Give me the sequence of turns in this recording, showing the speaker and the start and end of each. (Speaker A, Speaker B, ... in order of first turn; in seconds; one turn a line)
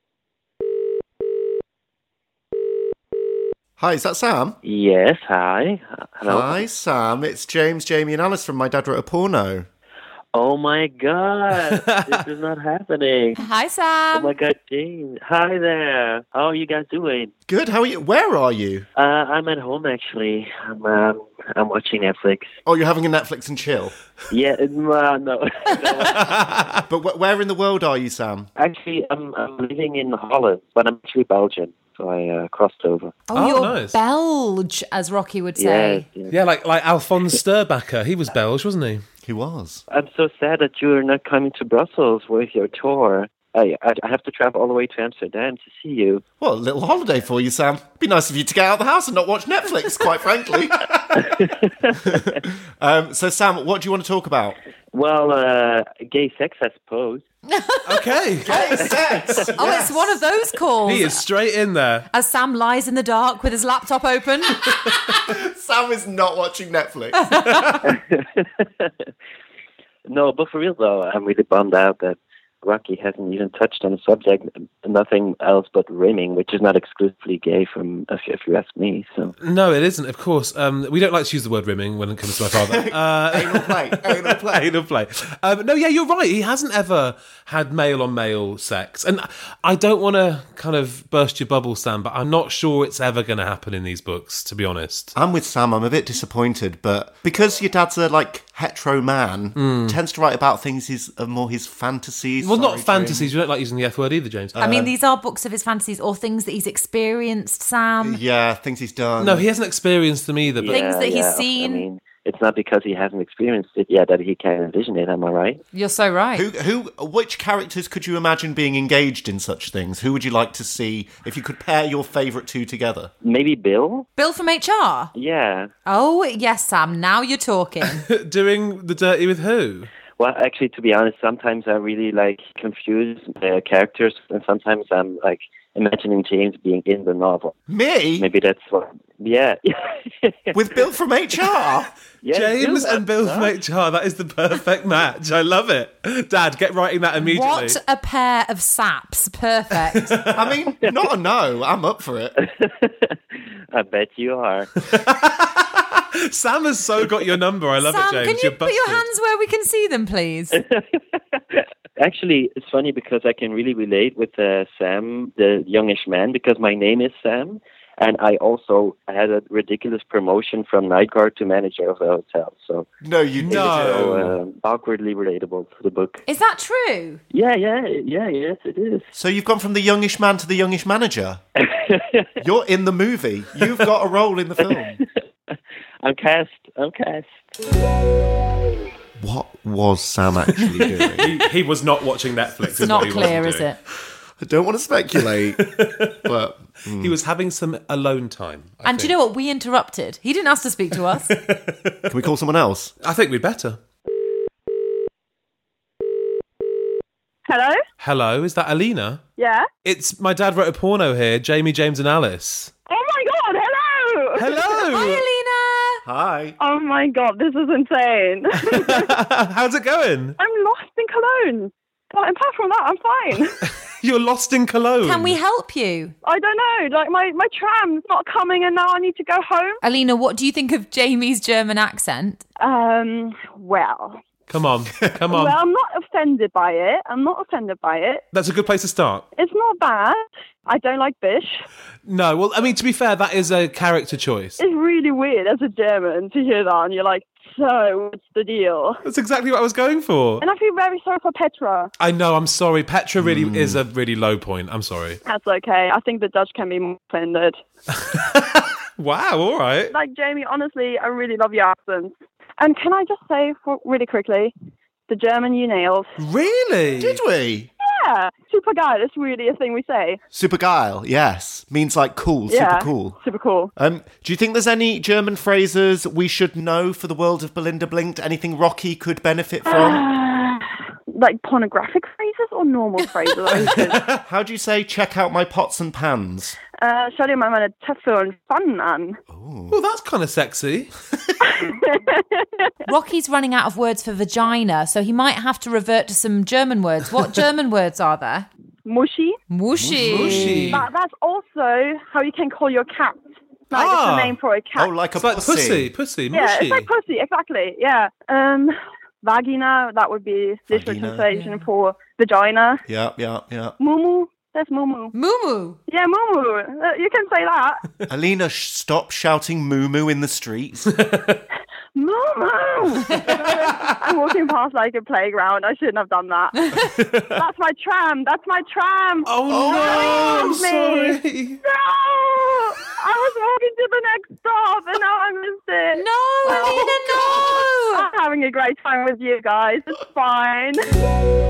Speaker A: 3.8-4.6
Speaker B: 4.6-6.7
Speaker A: 6.2-9.7
Speaker B: 10.3-13.4
Speaker C: 11.7-12.2
Speaker D: 13.4-14.3
Speaker B: 14.1-17.3
Speaker A: 17.5-18.9
Speaker B: 19.0-22.5
Speaker A: 22.7-23.9
Speaker B: 24.3-26.4
Speaker C: 26.2-26.6
Speaker A: 26.9-28.5
Speaker B: 28.6-33.2
Speaker D: 33.3-36.0
Speaker C: 33.3-34.0
Speaker B: 35.6-36.4
Speaker C: 36.3-39.0
Speaker A: 39.2-39.8
Speaker B: 39.9-46.2
Speaker A: 46.4-51.4
Speaker B: 51.1-52.2
Speaker A: 52.0-54.6
Speaker B: 54.9-57.3
Speaker D: 57.5-57.9
Speaker C: 57.9-58.9
Speaker A: 58.5-60.2
Speaker B: 58.8-59.5
Speaker D: 59.6-61.2
Speaker C: 60.9-62.1
Speaker D: 62.1-64.6
Speaker A: 65.1-67.5
Speaker B: 68.0-68.9
Speaker B: 70.1-79.3
Speaker C: 79.4-95.2
Speaker A: 82.5-84.7
Speaker A: 95.2-103.3
Speaker C: 99.6-100.0
Speaker C: 102.4-104.6
Speaker A: 104.5-104.9
Speaker D: 104.6-108.2
Speaker A: 108.0-109.5
Speaker C: 109.2-110.8
Speaker B: 110.6-115.6
Speaker D: 110.7-111.9
Speaker D: 115.7-116.5
Speaker A: 116.3-123.1
Speaker B: 123.2-124.1
Speaker D: 124.2-125.1
Speaker B: 125.1-125.7
Speaker D: 125.9-128.1
Speaker C: 128.0-129.9
Speaker B: 130.2-137.6
Speaker A: 137.7-138.3
Speaker B: 138.2-140.8
Speaker A: 140.5-141.9
Speaker B: 142.2-143.6
Speaker C: 142.3-147.8
Speaker D: 147.2-150.2
Speaker C: 149.9-150.6
Speaker A: 150.3-152.3
Speaker B: 152.4-154.7
Speaker C: 154.8-159.1
Speaker D: 157.8-160.6
Speaker B: 160.5-172.9
Speaker A: 173.0-174.4
Speaker C: 173.4-174.3
Speaker B: 173.4-176.2
Speaker D: 176.3-177.2
Speaker B: 177.3-179.1
Speaker A: 179.2-181.4
Speaker B: 181.6-182.3
Speaker A: 182.4-185.0
Speaker B: 184.6-187.4
Speaker A: 189.2-191.3
Speaker C: 191.2-193.7
Speaker D: 192.8-193.8
Speaker A: 192.9-193.3
Speaker A: 194.4-197.2
Speaker C: 195.5-196.2
Speaker C: 197.0-199.1
Speaker D: 198.8-201.3
Speaker C: 201.3-202.1
Speaker A: 202.1-202.9
Speaker C: 203.0-203.8
Speaker E: 207.5-207.8
Speaker C: 208.0-209.2
Speaker E: 209.4-209.7
Speaker C: 209.8-212.7
Speaker E: 212.9-214.7
Speaker C: 214.4-215.2
Speaker D: 214.9-216.0
Speaker A: 216.1-216.6
Speaker E: 216.6-219.1
Speaker C: 218.8-220.4
Speaker E: 220.4-223.6
Speaker C: 223.7-225.4
Speaker D: 225.0-226.1
Speaker E: 226.2-229.8
Speaker D: 229.8-232.4
Speaker E: 232.6-234.2
Speaker C: 234.5-235.6
Speaker E: 235.3-238.2
Speaker C: 238.3-239.3
Speaker E: 239.4-241.6
Speaker C: 242.1-244.6
Speaker E: 244.6-249.0
Speaker C: 249.1-250.4
Speaker E: 250.4-251.9
Speaker C: 252.0-255.2
Speaker A: 253.2-253.8
Speaker E: 255.2-257.6
Speaker C: 258.0-259.9
Speaker E: 259.9-264.5
Speaker E: 265.1-266.1
Speaker C: 266.2-267.2
Speaker A: 267.0-267.7
Speaker E: 267.8-270.2
Speaker A: 270.3-273.2
Speaker E: 272.5-273.7
Speaker A: 273.8-280.0
Speaker E: 279.7-284.1
Speaker C: 283.5-284.2
Speaker A: 284.2-286.6
Speaker E: 286.8-289.2
Speaker A: 289.3-289.8
Speaker C: 289.7-291.0
Speaker E: 291.5-292.7
Speaker D: 292.9-298.5
Speaker E: 298.9-299.4
Speaker D: 299.5-300.8
Speaker A: 299.8-300.7
Speaker C: 300.0-300.9
Speaker E: 300.7-304.9
Speaker C: 303.7-304.4
Speaker A: 304.8-305.9
Speaker C: 305.2-306.9
Speaker E: 306.3-312.8
Speaker A: 310.7-311.2
Speaker D: 311.3-311.6
Speaker A: 312.9-313.8
Speaker E: 313.8-315.1
Speaker D: 315.1-315.8
Speaker E: 315.9-317.8
Speaker A: 318.1-320.9
Speaker C: 320.9-321.4
Speaker E: 321.9-326.6
Speaker C: 326.9-327.4
Speaker E: 327.2-337.3
Speaker C: 329.3-331.6
Speaker A: 329.5-330.4
Speaker D: 335.9-338.1
Speaker E: 337.9-340.8